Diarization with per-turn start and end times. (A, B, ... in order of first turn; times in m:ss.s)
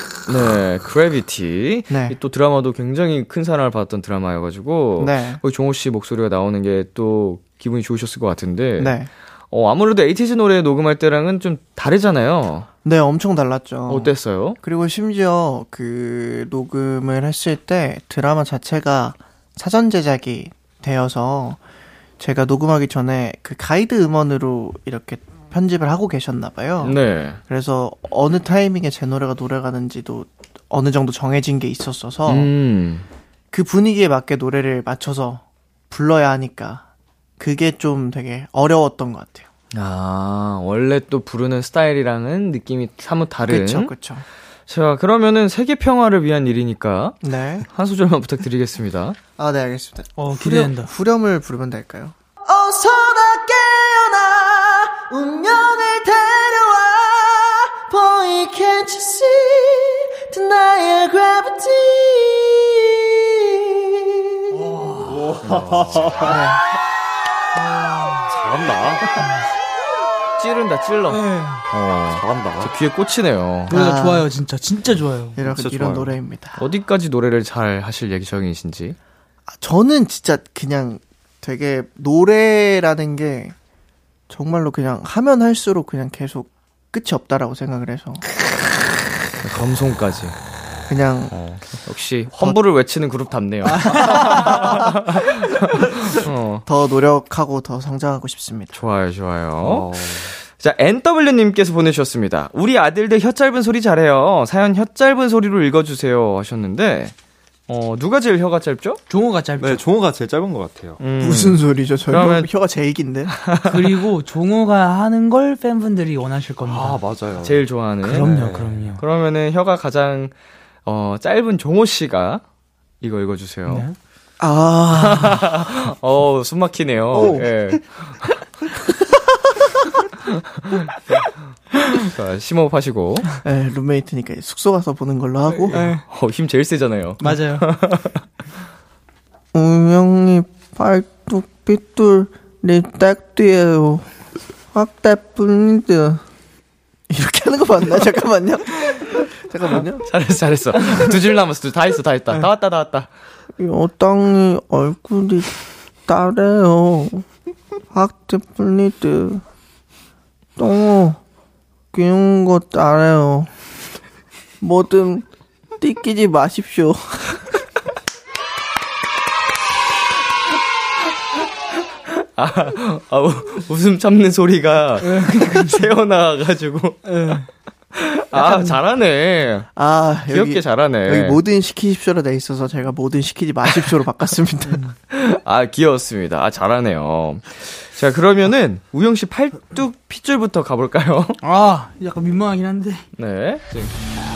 0:00.2-0:09.0 A
0:01.9-0:02.1 B
0:05.0-0:05.4 B
0:08.8-0:09.1 B
0:09.5-0:12.7 A
0:12.8-0:21.6 B
0:13.9-0:14.6 A
0:22.2-0:32.5 B
0:26.8-0:27.4 A
0:32.3-0:33.0 A
0:33.5-0:36.8 B
0:37.4-0:39.4 B
0:39.7-0:43.9 A
0:43.5-0:44.2 B
0:44.7-0:49.2 A
0:47.2-0:47.6 B
0:49.4-0:52.1 B
0:50.2-0:50.9 C
0:52.4-1:02.5 D
1:04.5-1:05.2 C
1:05.0-1:06.4 E
1:05.4-1:06.1 A
1:06.2-1:06.6 B
1:07.6-1:08.3 C
1:08.3-1:09.2 E
1:10.4-1:13.7 A
1:11.1-1:11.6 C
1:12.1-1:12.7 E
1:13.7-1:15.4 C
1:13.7-1:14.3 B
1:15.4-1:16.6 B
1:15.4-1:16.2 E
1:16.6-1:19.0 A
1:19.6-1:23.5 B
1:24.3-1:28.2 B
1:29.4-1:30.4 A
1:30.9-1:31.3 B
1:31.3-1:36.6 A
1:33.6-1:34.6 C
1:34.1-1:34.9 B
1:36.7-1:38.8 B
1:38.7-1:47.1 A
1:39.6-1:40.3 E
1:47.7-1:49.0 A
1:49.1-1:49.8 C
1:49.6-1:51.0 E
1:51.0-1:52.5 A
1:51.2-1:53.3 B
1:53.3-1:53.9 A
1:53.6-1:57.0 C
1:56.6-1:57.6 E
1:57.4-1:58.3 A
1:58.0-1:59.0 C
1:58.2-1:58.9 E
1:59.0-2:00.3 A
2:00.8-2:02.4 A
2:03.0-2:03.8 A
2:03.7-2:03.9 C
2:04.4-2:05.5 B
2:04.9-2:08.3 A
2:07.1-2:07.5 B
2:07.2-2:07.4 E
2:09.0-2:09.2 B
2:10.3-2:11.1 A
2:11.9-2:13.3 A
2:13.4-2:15.8 B
2:15.7-2:18.2 A
2:15.7-2:16.0 C
2:17.2-2:17.6 C
2:19.5-2:24.1 B
2:24.7-2:26.2 B
2:27.1-2:30.0 B
2:30.0-2:33.1 A
2:33.6-2:35.6 B
2:36.1-2:37.2 B
2:37.9-2:39.4 B
2:40.6-2:41.2 B
2:41.9-2:43.5 B
2:44.6-2:45.2 B
2:45.8-2:47.4 B
2:52.1-2:57.3 A
2:55.0-2:55.9 C
2:57.0-2:57.5 C
2:58.0-2:59.7 A
2:58.3-2:58.7 B
2:59.8-3:04.8 B
3:00.3-3:01.4 A
3:03.7-3:04.0 A
3:04.6-3:04.9 C
3:05.1-3:11.4 A
3:11.4-3:13.0 C
3:13.2-3:13.9 A